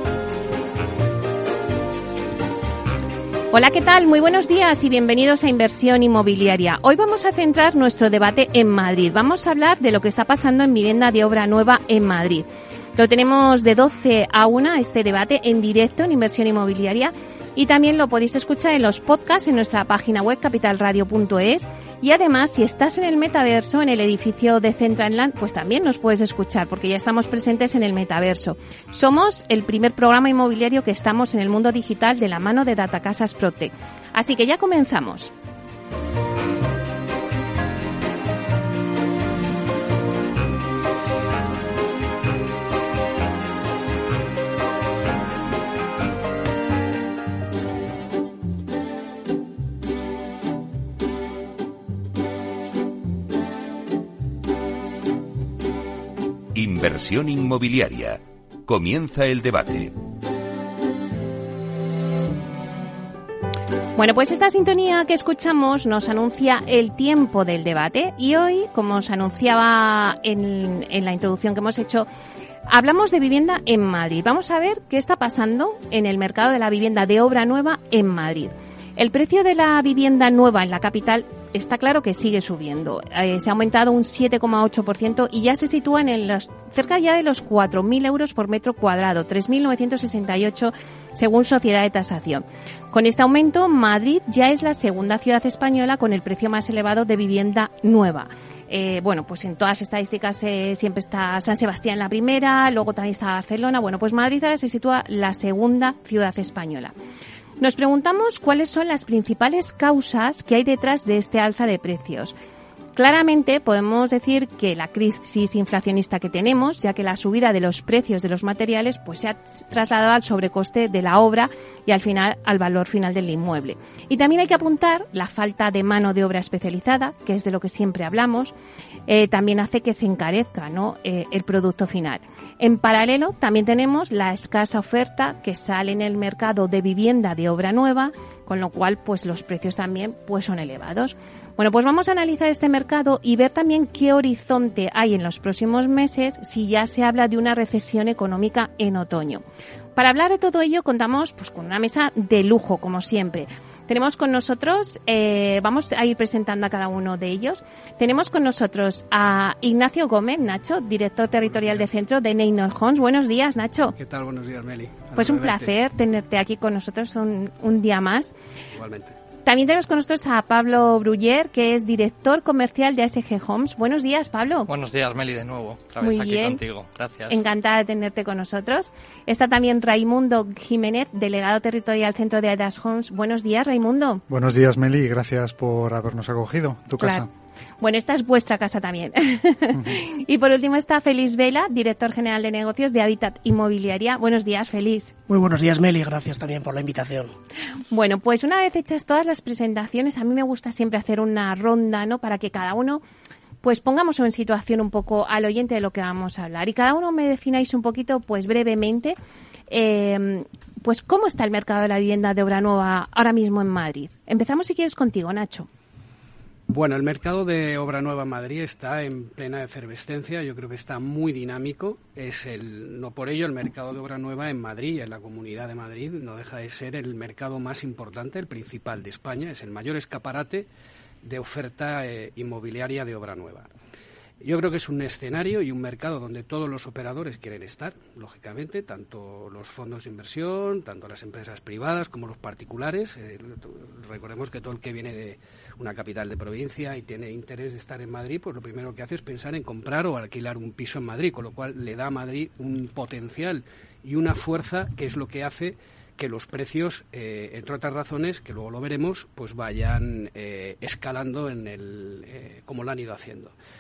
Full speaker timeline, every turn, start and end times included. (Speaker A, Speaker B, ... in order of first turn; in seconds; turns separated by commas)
Speaker A: 3.5-35.3, Speaker B: 56.5-60.0, Speaker A: 64.0-72.1, Speaker A: 72.7-106.9, Speaker A: 107.6-112.4, Speaker A: 113.0-128.5, Speaker A: 129.1-149.4, Speaker A: 150.0-163.9, Speaker C: 164.0-165.7, Speaker A: 165.2-168.3, Speaker C: 168.7-169.2, Speaker A: 169.4-174.7, Speaker D: 174.7-177.4, Speaker A: 176.0-176.6, Speaker A: 177.3-184.2, Speaker E: 184.3-187.3, Speaker A: 187.0-187.2, Speaker A: 187.8-195.1, Speaker F: 195.3-197.3, Speaker A: 197.9-203.0, Speaker A: 203.6-209.2, Speaker A: 209.7-215.7, Speaker C: 216.7-230.7, Speaker C: 231.2-233.7, Speaker C: 234.4-263.5